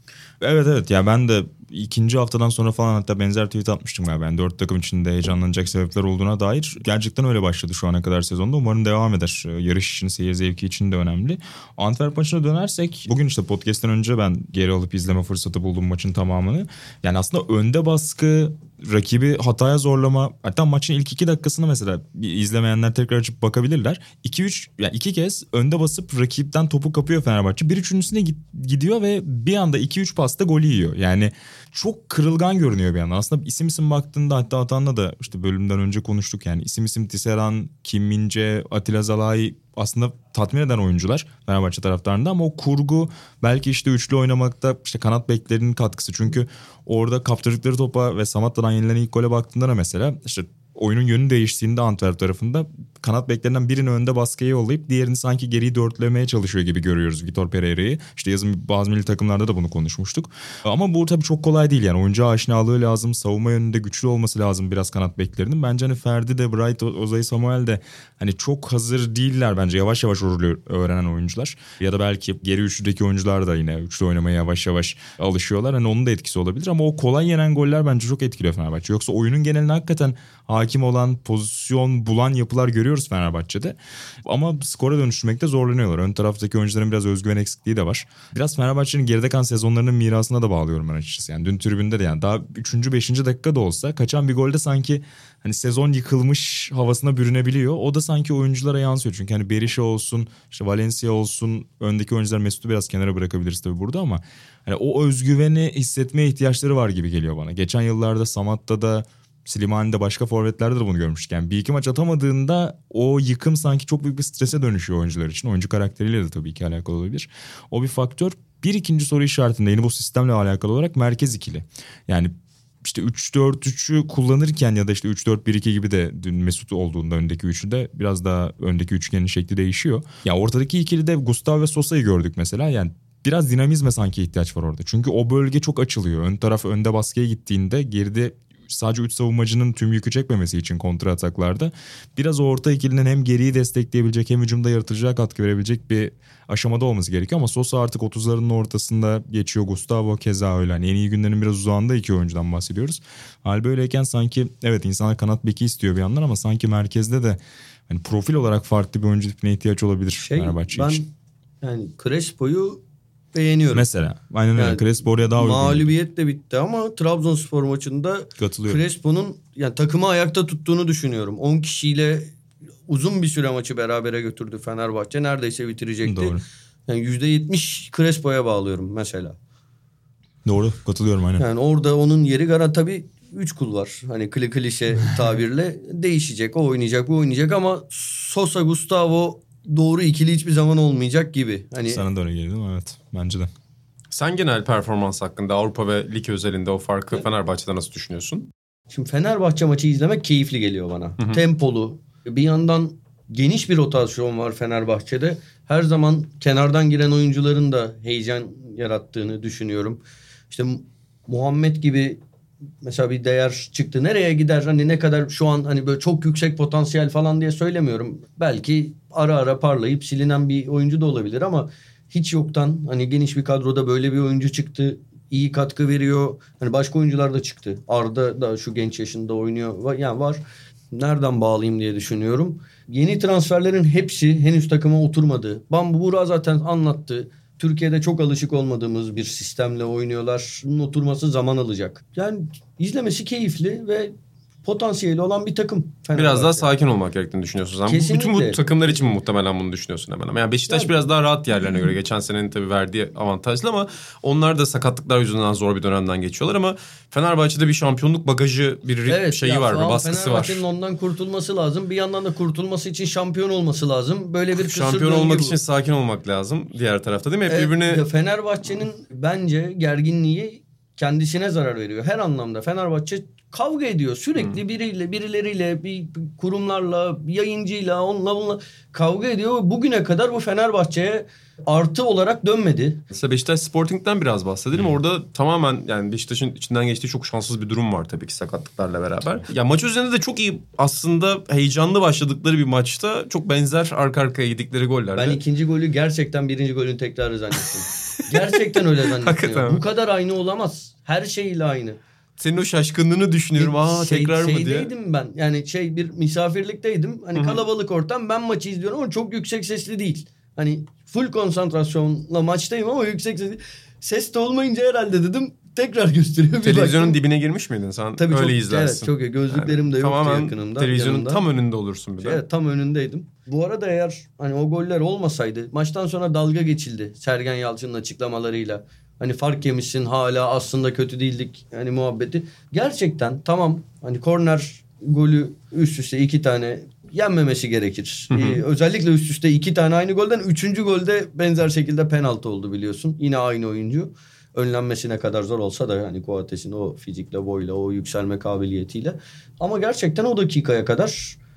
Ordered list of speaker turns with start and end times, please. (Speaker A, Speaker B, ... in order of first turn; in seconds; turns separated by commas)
Speaker A: 0.4-122.3, Speaker A: 122.8-161.0, Speaker B: 160.2-162.8, Speaker B: 163.3-163.9, Speaker A: 163.7-165.9, Speaker B: 164.6-172.3, Speaker A: 168.4-168.8, Speaker B: 172.9-179.4, Speaker A: 176.1-176.4, Speaker A: 180.4-181.4, Speaker B: 181.4-192.0, Speaker A: 191.9-193.5, Speaker C: 194.1-198.5, Speaker B: 198.9-212.2, Speaker B: 212.8-244.1, Speaker B: 244.6-246.7, Speaker C: 246.2-260.6, Speaker B: 247.9-248.6, Speaker B: 259.1-265.6, Speaker C: 264.5-268.1, Speaker B: 267.5-283.0, Speaker C: 283.1-295.4, Speaker B: 295.1-302.0, Speaker C: 298.3-298.6, Speaker C: 299.1-299.8, Speaker C: 302.4-304.9, Speaker B: 303.6-317.2, Speaker C: 307.4-307.6, Speaker C: 316.6-322.4, Speaker B: 318.2-321.4, Speaker B: 322.2-351.4, Speaker C: 338.3-338.6